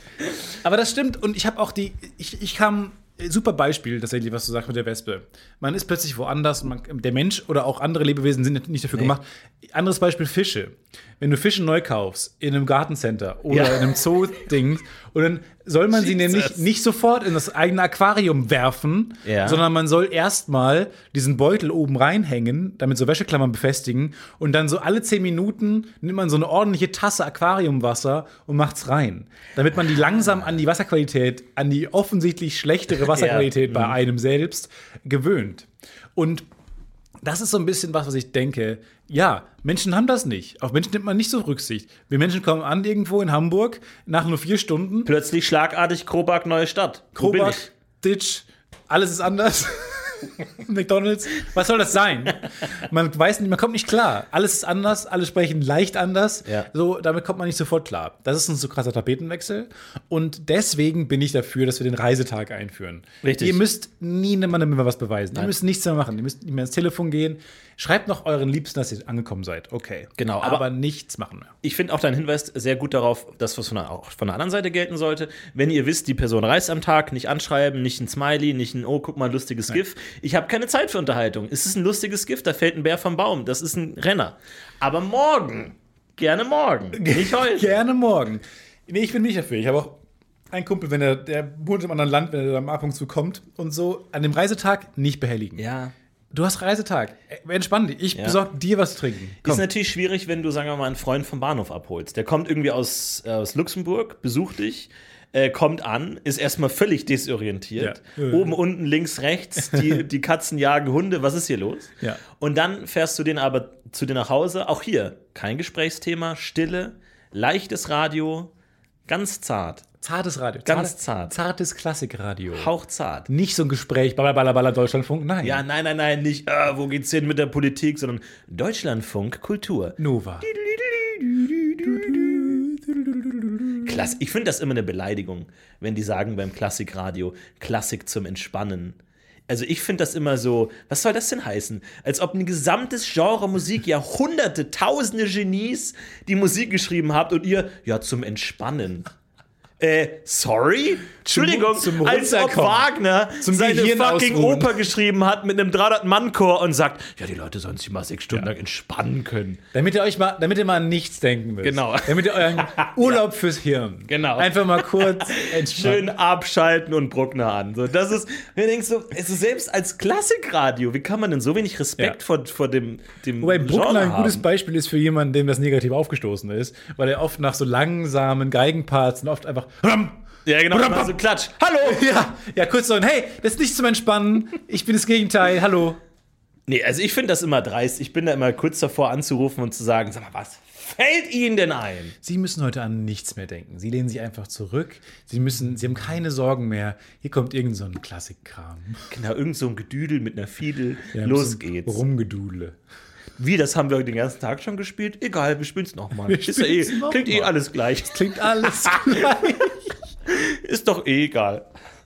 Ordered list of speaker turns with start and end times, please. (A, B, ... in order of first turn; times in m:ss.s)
0:00.6-0:36.5 A
0:13.5-0:13.9 B
0:15.9-0:16.6 B
0:19.2-0:19.6 B
0:33.0-0:34.0 B
0:37.2-0:45.1 A
0:45.0-0:47.7 B
0:47.1-1:11.5 A
1:03.2-1:03.6 B
1:10.2-1:10.6 B
1:11.6-1:27.8 B
1:27.0-1:30.0 A
1:30.5-1:35.6 A
1:35.6-1:35.9 B
1:36.3-1:39.6 A
1:38.1-1:38.4 B
1:39.4-1:58.5 B
1:47.8-1:48.5 A
1:49.7-1:50.0 A
1:59.1-1:59.9 B
2:00.0-2:02.7 A
2:00.6-2:01.3 B
2:02.5-2:03.3 B
2:03.3-2:05.6 A
2:05.4-2:12.5 B
2:10.0-2:10.4 A
2:11.8-2:13.9 A
2:13.8-2:29.1 B
2:29.8-2:39.6 B
2:31.2-2:34.7 A
2:39.7-2:46.1 A
2:41.6-2:43.2 B
2:44.1-2:54.4 B
2:53.4-3:01.1 A
3:00.4-3:02.0 B
3:01.8-3:06.0 A
3:06.7-3:12.1 B
3:12.2-3:19.1 A
3:19.1-3:22.0 B
3:21.1-3:22.8 A
3:23.4-3:29.5 B
3:26.2-3:29.9 A
3:30.2-3:31.6 B